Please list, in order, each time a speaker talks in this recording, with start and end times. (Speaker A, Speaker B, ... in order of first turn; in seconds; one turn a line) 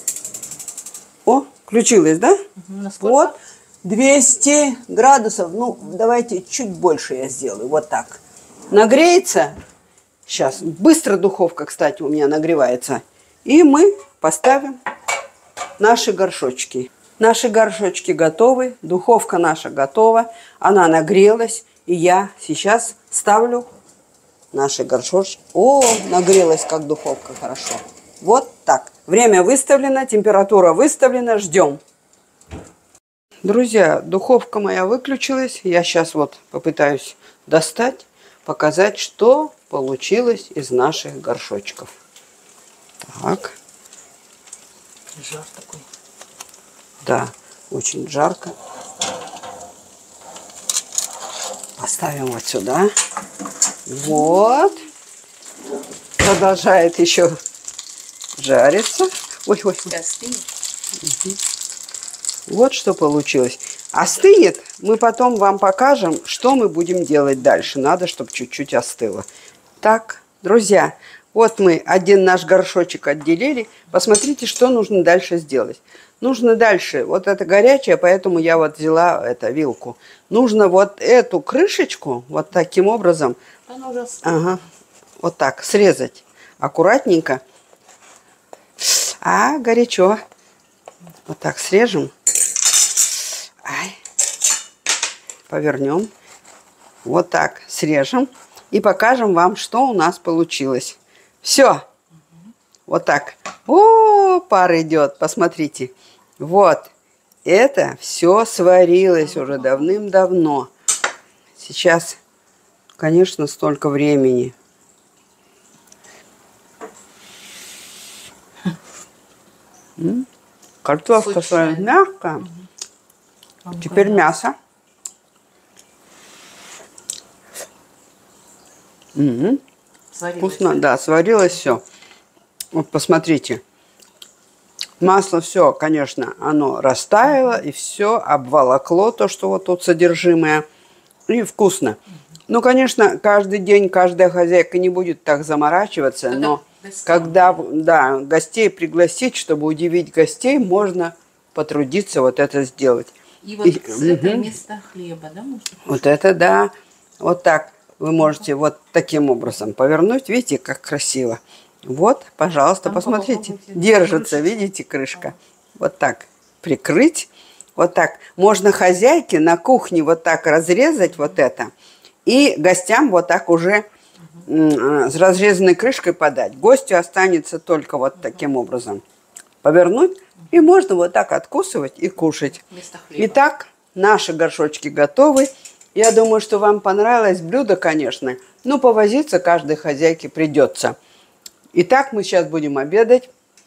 Speaker A: 1.3-2.4
Speaker B: 2.6-3.4
Speaker A: 3.0-9.6
Speaker A: 10.3-14.8
Speaker A: 15.8-23.7
Speaker A: 24.5-31.8
Speaker A: 33.4-41.9
Speaker A: 43.0-43.6
Speaker B: 45.2-45.9
Speaker A: 47.0-48.5
Speaker A: 51.8-52.9
Speaker A: 53.9-54.9
Speaker B: 54.2-54.6
Speaker A: 56.2-57.4
Speaker A: 58.4-59.9
Speaker B: 59.9-60.5
Speaker A: 62.5-69.3
Speaker A: 69.8-83.4
Speaker B: 83.7-84.6
Speaker A: 84.2-84.6
Speaker A: 85.2-87.4
Speaker A: 88.8-90.2
Speaker A: 91.3-92.1
Speaker A: 93.6-94.0
Speaker A: 95.5-96.1
Speaker A: 97.0-101.8
Speaker A: 102.9-106.9
Speaker A: 107.5-110.7
Speaker A: 111.6-112.2
Speaker A: 113.0-114.5
Speaker A: 120.0-120.3
Speaker A: 120.8-122.5
Speaker B: 121.2-121.9
Speaker B: 123.7-124.2
Speaker A: 123.8-124.6
Speaker A: 129.2-129.6
Speaker B: 130.1-130.8
Speaker A: 130.4-131.8
Speaker A: 132.7-133.6
Speaker A: 135.0-140.6
Speaker A: 141.3-154.4
Speaker B: 146.3-147.7
Speaker B: 153.4-155.9
Speaker A: 155.9-171.7
Speaker B: 162.8-164.5
Speaker A: 172.3-173.8
Speaker A: 174.5-179.0
Speaker A: 179.6-182.6
Speaker B: 182.7-183.4
Speaker A: 183.2-191.0
Speaker A: 191.7-193.3